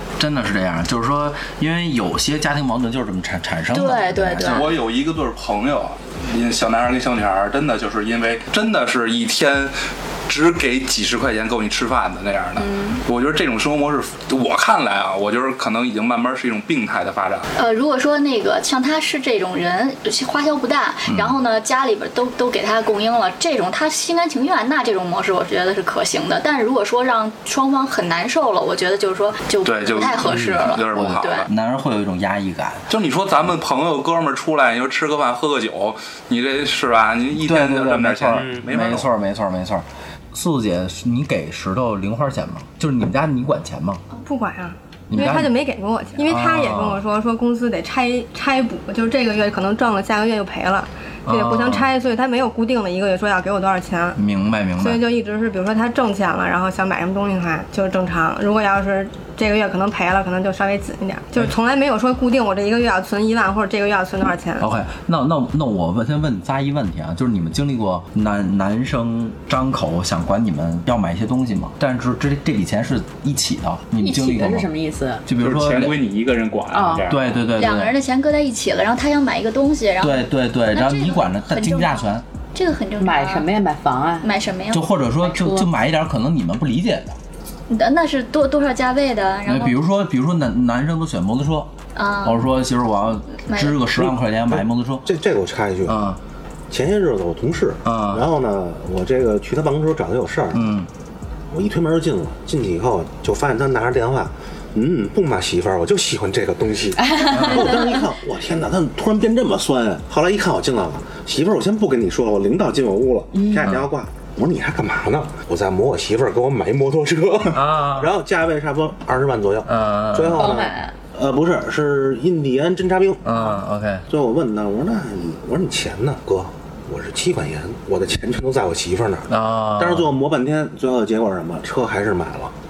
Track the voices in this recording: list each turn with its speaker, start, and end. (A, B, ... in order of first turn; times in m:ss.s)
0:00.2-0:04.7 A
0:03.7-0:04.6 B
0:04.4-0:17.5 C
0:12.6-0:13.0 B
0:17.5-0:31.5 B
0:21.1-0:21.4 A
0:29.6-0:31.5 C
0:30.9-0:32.9 A
0:32.9-0:39.1 C
0:37.4-0:44.0 A
0:38.3-0:38.6 D
0:44.1-0:54.2 E
0:45.1-0:45.5 A
0:46.2-0:47.0 A
0:51.2-0:51.9 A
0:54.2-0:55.0 A
0:54.8-1:04.6 E
1:04.6-1:14.7 A
1:14.0-1:15.2 F
1:15.2-1:16.0 A
1:15.4-1:17.2 C
1:16.7-1:17.1 F
1:17.1-1:17.9 A
1:17.6-1:23.5 B
1:20.0-1:22.2 A
1:23.0-1:24.3 F
1:24.2-1:24.8 B
1:24.7-1:27.2 A
1:25.2-1:25.7 F
1:27.7-1:29.8 B
1:29.4-1:31.7 A
1:31.9-1:32.5 B
1:32.2-1:35.0 A
1:33.4-1:33.8 B
1:34.0-1:36.0 D
1:35.8-1:36.2 A
1:36.7-1:40.7 D
1:37.8-1:38.3 A
1:40.5-1:40.9 A
1:41.5-2:03.5 D
1:47.0-1:48.0 F
1:47.3-1:47.7 A
1:53.4-1:53.7 F
1:53.6-1:53.9 A
1:57.5-1:58.1 A
1:59.6-2:00.6 A
2:00.3-2:00.9 F
2:03.2-2:04.0 A
2:04.1-2:12.5 D
2:09.3-2:10.1 A